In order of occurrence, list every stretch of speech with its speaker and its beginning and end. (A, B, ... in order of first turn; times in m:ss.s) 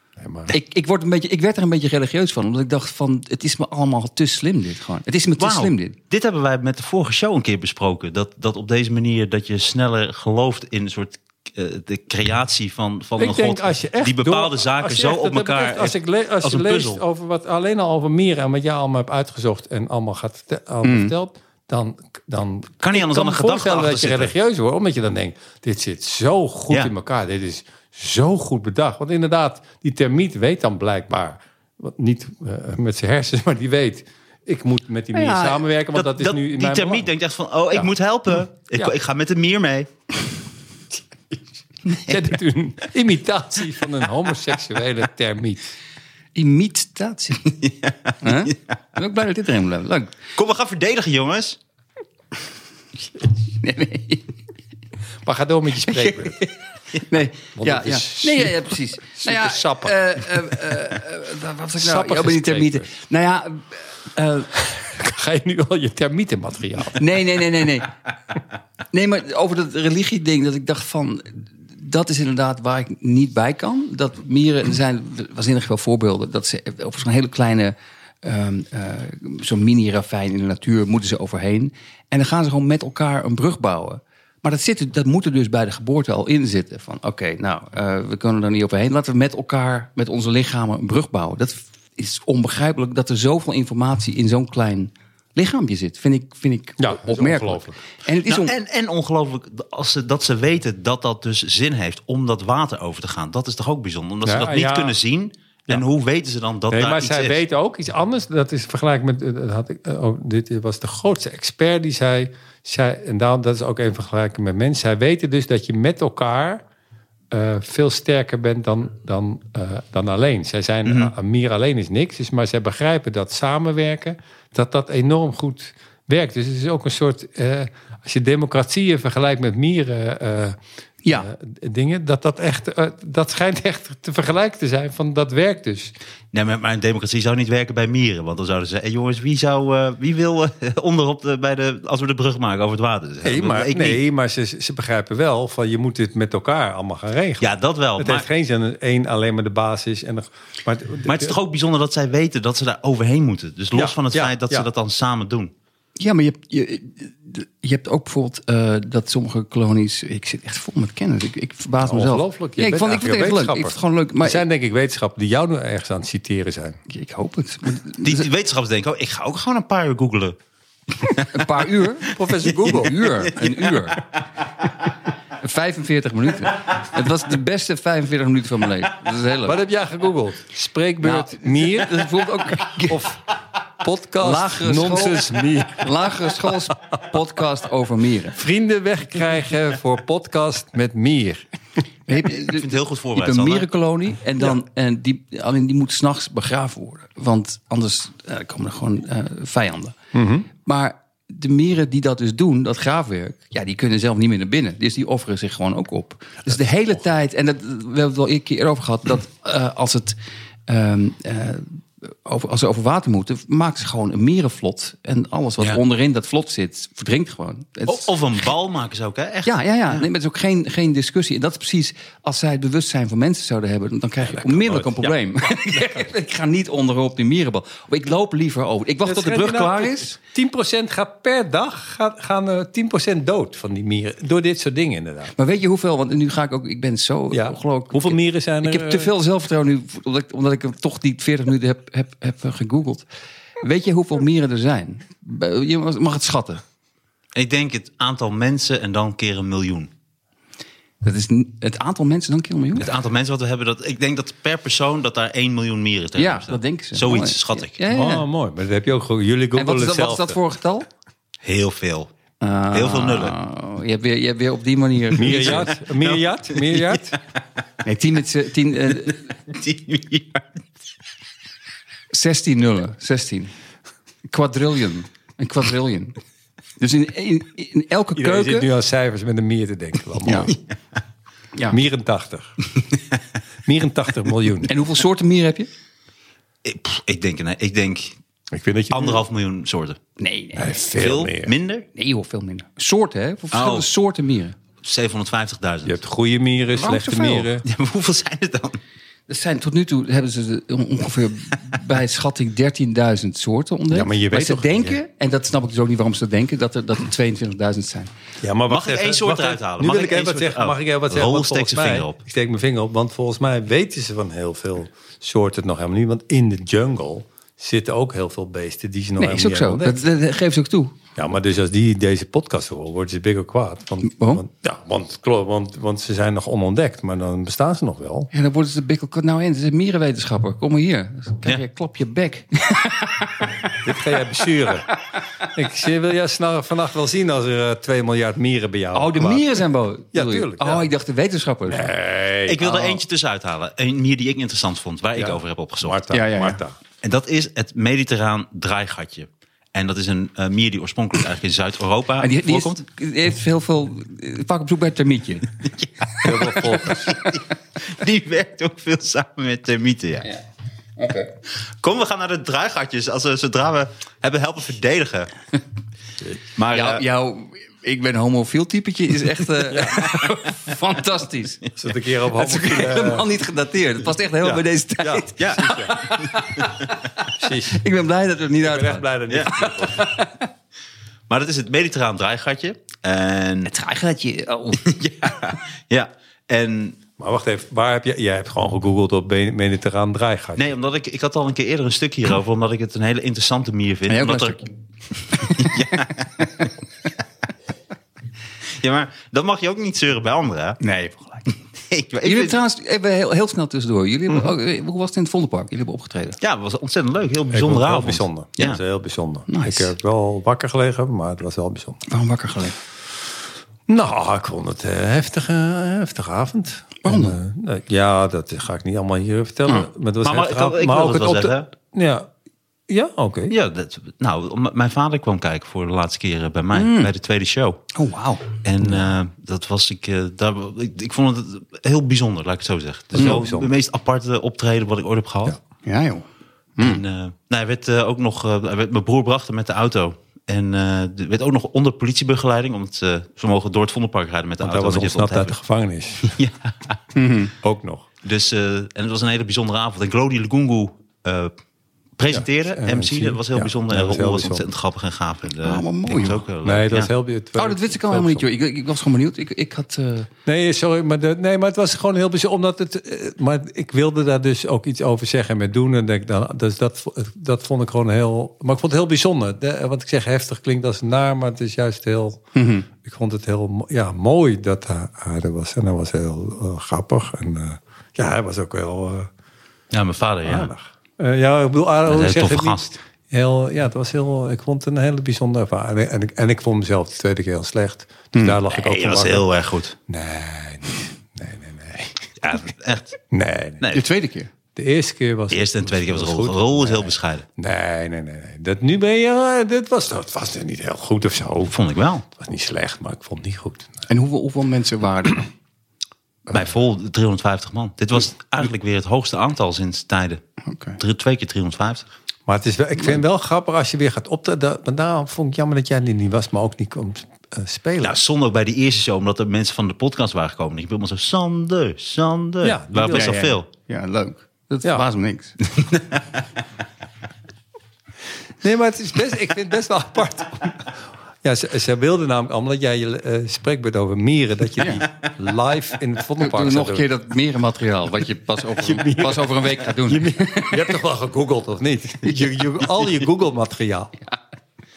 0:00.2-0:00.5 A
0:00.5-0:06.0 B
0:05.4-0:17.0 C
0:13.2-0:37.1 A
0:20.8-0:21.1 B
0:22.8-0:24.3 C
0:35.2-0:35.6 B
0:35.9-0:39.9 C
0:41.9-0:45.7 A
0:46.4-0:47.6 B
0:47.6-0:48.6 C
0:48.2-0:50.1 B
0:50.4-0:51.6 C
0:53.6-0:54.3 B
0:55.2-0:56.4 A
0:55.9-1:04.5 B
0:57.6-1:01.0 A
1:01.8-1:02.9 A
1:04.6-1:07.2 A
1:07.0-1:07.9 B
1:08.9-1:38.5 B
1:36.8-1:37.8 A
1:38.3-1:47.4 C
1:44.2-1:45.0 A
1:46.7-1:56.6 A
1:57.3-2:10.6 A
2:00.8-2:01.1 C
2:11.0-2:11.3 B
2:11.1-2:15.9 A
2:16.3-2:24.0 C
2:23.2-2:31.4 A
2:27.4-2:28.3 C
2:31.1-2:35.5 C
2:33.7-2:34.7 A
2:36.0-2:44.4 B
2:41.8-2:46.8 A
2:46.9-2:48.3 B
2:48.0-2:50.4 C
2:51.0-2:51.4 C
2:51.2-2:54.0 B
2:52.1-2:53.3 A
2:52.4-2:54.1 C
2:55.4-2:59.6 B
2:59.4-3:03.2 A
3:01.0-3:03.1 B
3:03.8-3:06.7 A
3:04.2-3:08.4 B
3:08.3-3:11.5 A
3:12.1-3:20.0 B
3:12.4-3:13.7 C
3:20.1-3:20.5 A
3:20.6-3:38.1 B
3:37.9-3:40.0 C
3:39.4-3:50.2 B
3:44.4-3:44.9 A
3:49.0-3:55.3 A
3:55.4-4:03.0 B
3:57.3-3:59.1 A
4:03.6-4:06.6 B
4:07.4-4:09.9 C
4:11.0-4:12.9 B
4:12.8-4:17.8 C
4:16.2-4:18.3 B
4:17.9-4:20.4 A
4:19.6-4:20.9 B
4:21.4-4:22.1 C
4:22.4-4:25.7 B
4:22.7-4:23.4 C
4:25.2-4:27.2 A
4:25.2-4:27.2 C
4:27.8-4:29.3 B
4:29.5-4:30.5 C
4:32.1-4:33.5 B
4:34.3-4:36.2 B
4:36.8-4:38.7 B
4:38.2-4:40.5 A
4:40.2-4:40.5 B
4:41.7-4:42.6 A
4:43.6-4:44.7 A
4:44.7-4:45.7 B
4:46.6-4:48.2 C
4:48.5-4:49.2 A
4:48.9-4:50.0 C
4:50.2-4:50.8 B
4:50.6-4:51.5 A
4:51.0-4:51.9 C
4:51.9-4:54.6 B
4:53.5-4:53.9 C
4:54.8-4:56.0 C
4:55.8-4:57.6 A
4:56.8-4:57.5 B
4:57.6-4:58.8 C
4:59.3-5:08.1 B
5:03.9-5:05.0 A
5:08.4-5:20.0 A
5:08.7-5:12.2 C
5:19.2-5:20.9 B
5:21.2-5:28.3 A
5:24.0-5:24.4 B
5:28.3-5:33.8 B
5:33.8-5:34.9 A
5:35.5-5:39.6 A
5:38.9-5:41.9 B
5:40.1-5:40.9 A
5:41.7-5:42.9 A
5:42.5-5:46.0 C
5:45.2-5:46.8 A
5:46.1-5:46.6 B
5:47.0-5:52.8 C
5:52.2-5:55.5 B
5:56.2-5:57.2 A
5:57.1-6:00.3 C
6:01.0-6:01.3 B
6:01.8-6:05.3 C
6:06.6-6:07.0 C
6:06.7-6:11.6 B
6:09.7-6:10.0 A
6:11.8-6:13.3 A
6:12.3-6:20.5 B
6:14.4-6:16.1 A
6:15.4-6:16.2 C
6:17.4-6:17.8 A
6:18.6-6:20.1 A
6:21.3-6:23.7 C
6:23.6-6:24.9 B
6:24.8-6:27.0 C
6:27.2-6:30.7 A
6:30.6-6:34.6 C
6:34.1-6:34.7 B
6:35.3-6:36.5 B
6:35.3-6:36.7 C
6:38.8-6:40.8 C
6:40.8-6:41.5 B
6:41.9-6:42.6 C
6:42.2-6:46.4 B
6:46.4-6:48.8 C
6:47.5-6:52.0 A
6:49.5-6:49.9 B
6:52.1-6:52.8 B
6:53.9-7:02.3 A
6:57.0-6:57.4 B
7:00.2-7:01.7 C
7:02.9-7:03.5 A
7:03.5-7:07.8 C
7:06.7-7:07.1 B
7:07.9-7:08.5 B
7:08.5-7:15.6 C
7:13.2-7:13.7 A
7:15.8-7:16.2 B
7:16.8-7:17.0 B
7:16.8-7:25.6 C
7:24.6-7:26.4 A
7:26.2-7:27.0 C
7:27.1-7:27.5 B
7:27.6-7:28.1 A
7:28.2-7:31.5 C
7:32.2-7:37.1 C
7:32.3-7:34.6 A
7:35.6-7:36.4 B
7:36.6-7:38.5 A
7:37.6-7:40.3 B
7:40.4-7:59.3 A
7:52.6-7:52.9 B
7:59.9-8:00.7 C
8:00.4-8:09.5 A
8:02.1-8:02.8 C
8:08.3-8:08.6 B
8:08.7-8:10.0 C
8:10.1-8:12.7 A
8:12.4-8:13.2 C
8:13.3-8:13.9 A
8:13.8-8:14.1 C
8:13.9-8:14.5 B
8:14.8-8:24.0 A
8:15.5-8:17.4 C
8:21.6-8:22.2 C
8:24.1-8:25.5 B
8:26.5-8:30.4 C
8:30.6-8:31.0 B
8:31.0-8:32.0 C
8:32.5-8:38.2 A
8:38.0-8:43.7 C
8:42.6-8:43.4 A
8:43.1-8:45.6 B
8:48.6-8:57.1 A
8:54.8-8:55.0 B
8:56.4-9:01.0 B
8:58.8-9:04.2 A
9:02.2-9:02.6 B